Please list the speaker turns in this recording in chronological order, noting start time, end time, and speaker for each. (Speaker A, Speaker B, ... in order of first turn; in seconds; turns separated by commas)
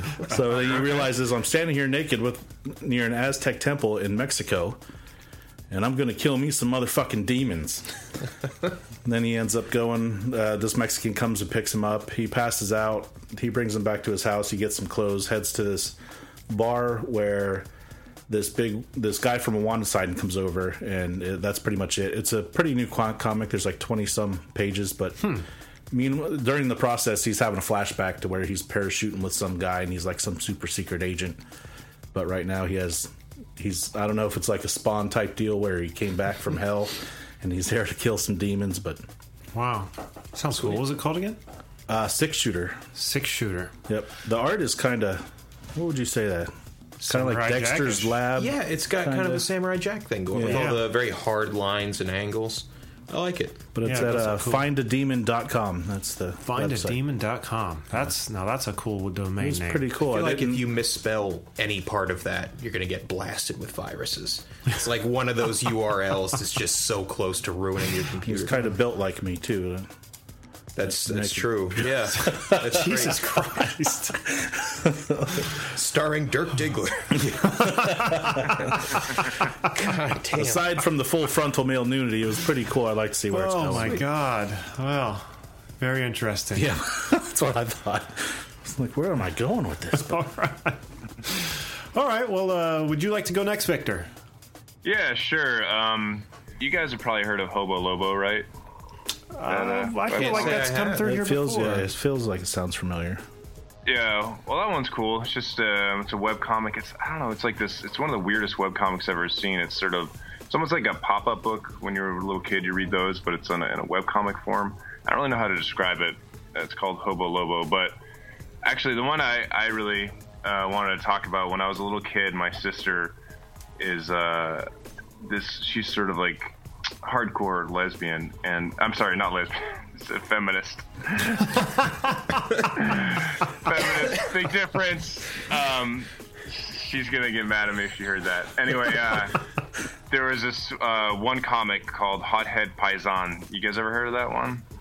Speaker A: 0.3-4.8, Speaker A: 5.7-7.9, Speaker A: 9.1-16.0, Speaker A: 16.5-17.7, Speaker A: 18.3-25.4, Speaker A: 25.9-31.4, Speaker A: 32.1-39.0, Speaker B: 39.5-41.4, Speaker A: 41.9-42.8, Speaker B: 43.0-43.7, Speaker A: 43.9-49.5, Speaker B: 47.0-48.2, Speaker C: 48.4-53.7, Speaker A: 50.3-50.7, Speaker B: 50.4-50.8, Speaker A: 53.8-57.0, Speaker B: 53.8-54.7, Speaker B: 56.4-59.9, Speaker A: 59.4-60.7, Speaker C: 60.0-68.7, Speaker A: 68.3-69.9, Speaker C: 70.8-73.7, Speaker A: 70.9-72.9, Speaker B: 72.2-74.1, Speaker A: 74.0-75.5, Speaker C: 75.6-77.5, Speaker A: 77.3-78.8, Speaker B: 77.5-78.8, Speaker C: 78.8-80.8, Speaker A: 80.3-84.0, Speaker B: 83.3-86.8, Speaker A: 86.5-90.3, Speaker B: 90.0-94.1, Speaker D: 94.8-98.5, Speaker B: 99.3-101.9, Speaker D: 99.5-100.7, Speaker C: 100.1-101.1, Speaker A: 101.0-103.2, Speaker D: 103.9-117.9, Speaker D: 118.7-123.2, Speaker D: 123.8-124.7, Speaker D: 125.2-131.8, Speaker D: 132.6-139.4, Speaker D: 140.1-144.6